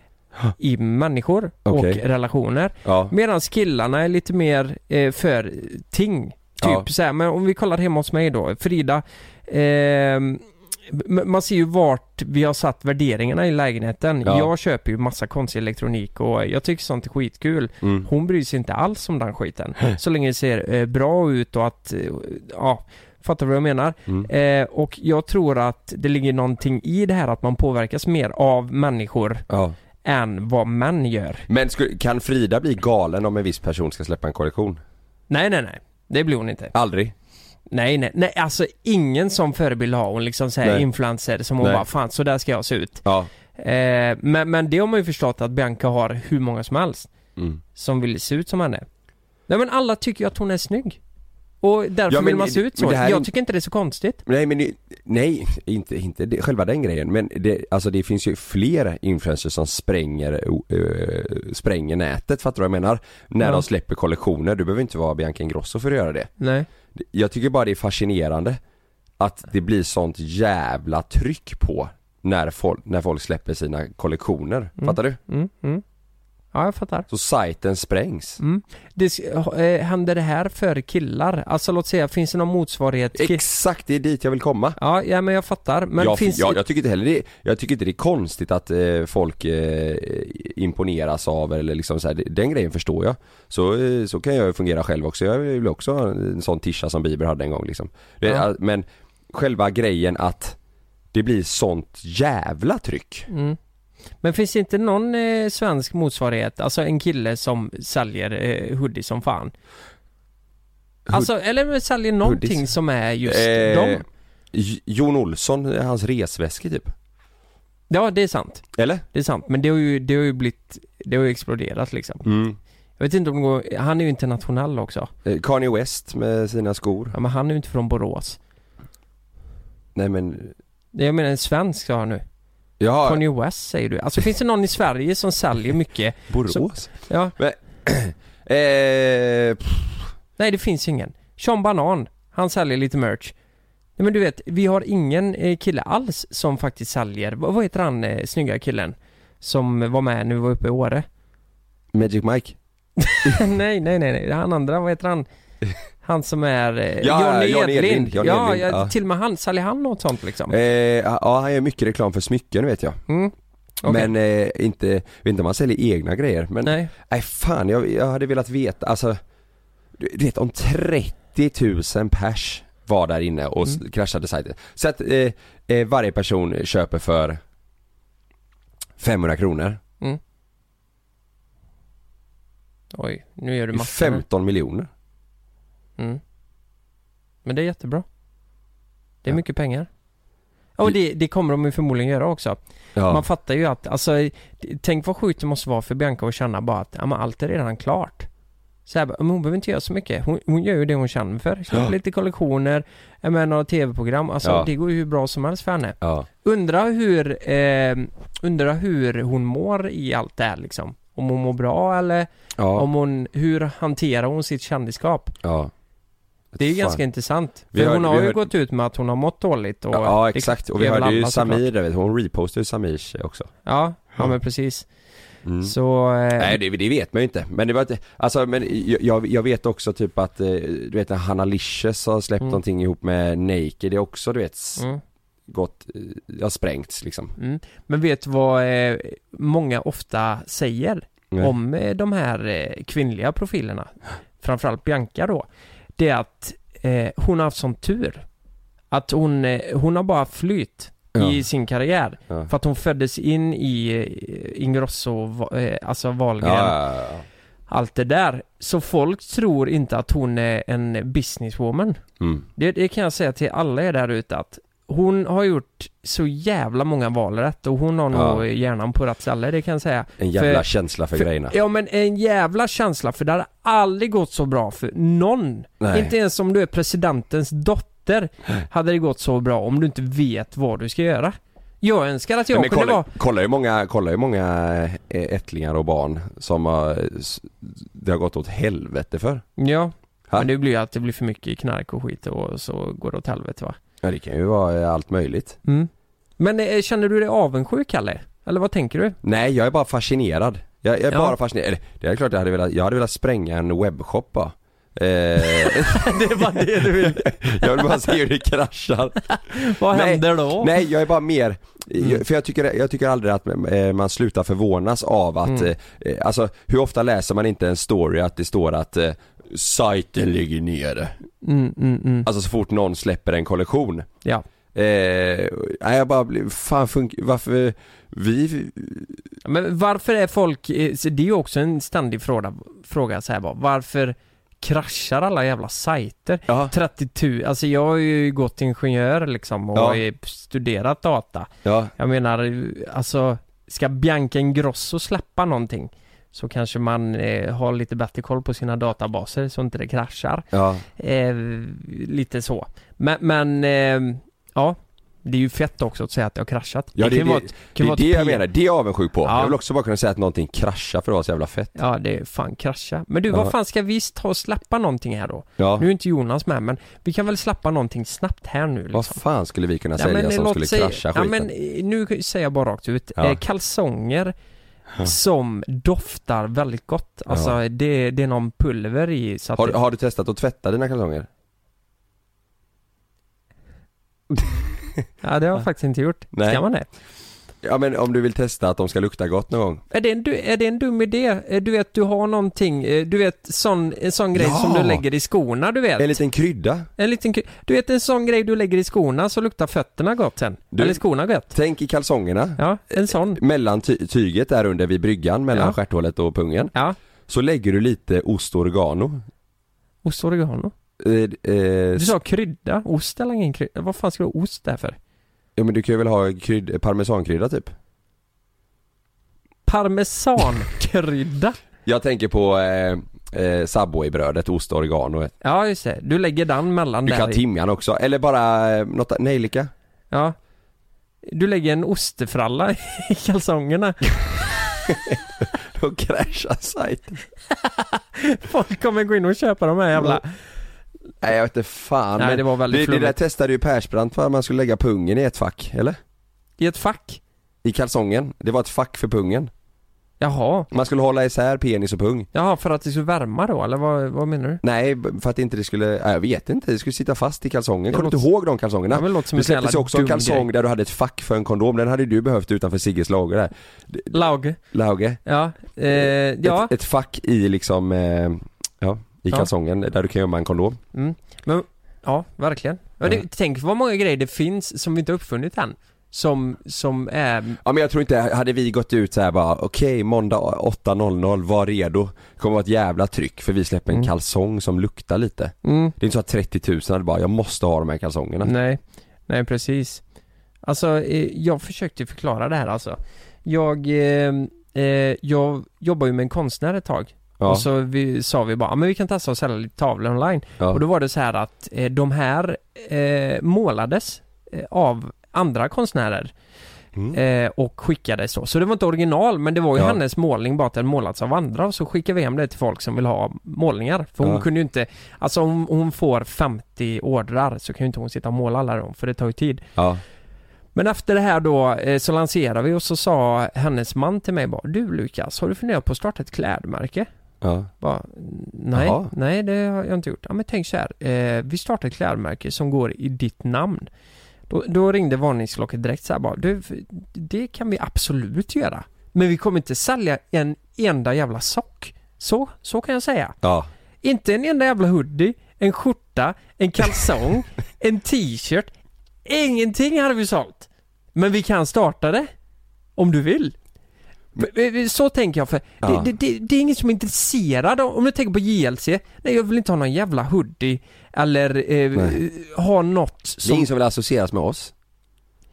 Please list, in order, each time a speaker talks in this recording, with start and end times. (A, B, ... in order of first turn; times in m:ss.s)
0:00.6-0:29.4 A
0:01.6-0:02.0 B
0:02.8-0:03.1 B
0:06.6-0:06.9 B
0:14.2-0:14.5 B
0:17.8-0:18.1 B
0:29.5-0:29.8 B
0:30.0-0:31.5 A
0:31.5-0:34.8 B
0:35.3-0:36.7 A
0:36.7-0:37.1 B
0:37.7-0:43.0 A
0:41.6-0:41.8 B
0:43.0-0:43.3 B
0:43.6-0:47.1 A
0:47.4-0:47.6 B
0:47.8-0:48.9 A
0:49.5-0:51.0 A
0:51.6-0:54.2 A
0:52.1-0:53.3 B
0:54.3-1:06.3 B
1:06.4-1:06.7 A
1:07.0-1:08.6 B
1:09.2-1:15.2 B
1:14.8-1:15.8 A
1:16.5-1:17.1 A
1:17.1-1:18.4 B
1:18.4-1:23.4 A
1:23.2-1:24.8 B
1:24.8-1:26.6 A
1:26.0-1:40.6 B
1:41.1-1:43.3 B
1:43.3-1:43.6 A
1:44.2-1:49.5 A
1:51.1-1:54.0 A
1:52.2-1:52.7 B
1:53.2-1:56.9 B
1:57.9-2:02.3 A
1:58.8-1:59.0 B
2:02.2-2:02.6 B
2:03.0-2:05.1 A
2:05.2-2:07.2 B
2:07.1-2:08.4 A
2:10.0-2:10.6 B
2:10.9-2:12.2 A
2:12.8-2:13.2 B
2:13.0-2:17.3 A
2:16.3-2:20.1 B
2:20.4-2:23.3 A
2:24.0-2:31.0 A
2:31.9-2:32.6 B
2:33.0-2:35.3 A
2:36.0-2:40.6 A
2:37.0-2:38.9 B
2:40.5-2:43.0 B
2:43.1-2:44.1 A
2:43.9-2:49.2 B
2:46.6-2:46.9 A
2:50.0-2:57.4 B
2:59.0-2:59.8 B
3:02.9-3:04.2 A
3:03.7-3:04.9 B
3:07.4-3:08.0 A
3:09.2-3:09.9 A
3:10.8-3:18.3 A
3:13.0-3:13.2 B
3:18.9-3:35.4 A
3:24.4-3:24.7 B
3:26.0-3:26.3 B
3:32.6-3:32.9 B
3:35.4-3:35.7 B
3:36.5-3:37.0 B
3:36.6-3:41.7 A
3:37.7-3:38.5 B
3:39.9-3:43.5 B
3:43.7-3:44.9 A
3:45.4-3:45.7 B
3:45.6-3:46.6 A
3:46.4-3:54.8 B
3:55.5-3:57.3 B
3:57.4-4:05.5 A
4:06.0-4:08.2 A
4:08.9-4:16.8 A
4:11.2-4:11.4 B
4:16.4-4:17.2 B
4:17.7-4:22.0 A
4:22.2-4:22.5 B
4:22.6-4:43.1 A
4:28.1-4:28.4 B
4:30.2-4:31.6 B
4:35.8-4:36.1 B
4:42.5-4:49.4 B
4:49.6-4:53.8 A
4:54.0-4:55.6 B
4:55.7-4:59.2 A
4:59.2-5:21.2 B
5:05.6-5:08.1 A
5:09.3-5:10.8 A
5:15.4-5:15.7 A
5:21.4-5:22.3 A
5:22.3-5:24.1 B
5:24.8-5:29.2 B
5:29.4-5:50.5 A
5:36.5-5:36.7 B
5:39.8-5:40.0 B
5:41.6-5:41.9 B
5:50.5-5:50.8 B
5:51.0-5:58.4 A
5:57.0-6:01.8 B
5:59.2-5:59.6 A
6:01.8-6:09.2 A
6:05.6-6:05.9 B
6:08.9-6:11.5 B
6:10.0-6:14.3 A
6:15.0-6:19.8 A
6:17.3-6:17.6 B
6:19.6-6:21.3 B
6:24.3-6:24.6 B
6:25.2-6:26.9 A
6:26.3-6:26.6 B
6:27.6-6:29.8 B
6:29.9-6:36.2 A
6:34.4-6:35.0 B
6:36.0-6:36.9 B
6:37.0-6:41.5 A
6:40.7-6:46.7 B
6:42.6-6:43.4 A
6:45.5-6:45.8 A
6:47.3-6:49.2 B
6:50.0-6:50.7 A
6:51.0-6:52.1 B
6:52.0-6:55.0 A
6:55.6-6:57.7 B
6:59.7-7:01.6 A
7:01.9-7:05.3 B
7:05.4-7:07.4 A
7:07.1-7:09.7 B
7:11.3-7:14.0 A
7:14.9-7:17.2 B
7:17.6-7:20.3 A
7:20.0-7:20.2 B
7:21.2-7:26.0 B
7:22.2-7:23.2 A
7:26.6-7:27.2 A
7:27.6-7:29.5 B
7:30.2-7:30.7 A
7:30.7-7:32.3 B
7:32.3-7:34.6 A
7:34.6-7:44.2 B
7:37.9-7:38.2 A
7:38.9-7:40.5 A
7:44.1-7:44.6 A
7:44.7-7:45.2 B
7:45.2-7:46.7 A
7:45.9-7:50.8 B
7:50.9-7:57.6 A
7:57.6-8:08.5 B
8:05.6-8:05.9 A
8:08.4-8:10.0 A
8:10.6-8:26.3 A
8:17.4-8:17.7 B
8:27.0-8:27.2 B
8:27.1-8:39.6 A
8:34.2-8:34.5 B
8:39.8-8:40.0 B
8:40.8-8:47.1 A
8:47.4-8:47.7 B
8:47.8-8:53.9 A
8:48.7-8:49.1 B
8:54.5-9:03.4 A
9:03.4-9:03.7 B
9:04.0-9:08.7 A
9:09.3-9:12.3 A
9:13.0-9:13.6 A
9:14.4-9:23.7 A
9:15.8-9:16.1 B
9:21.9-9:22.2 B
9:23.4-9:24.7 B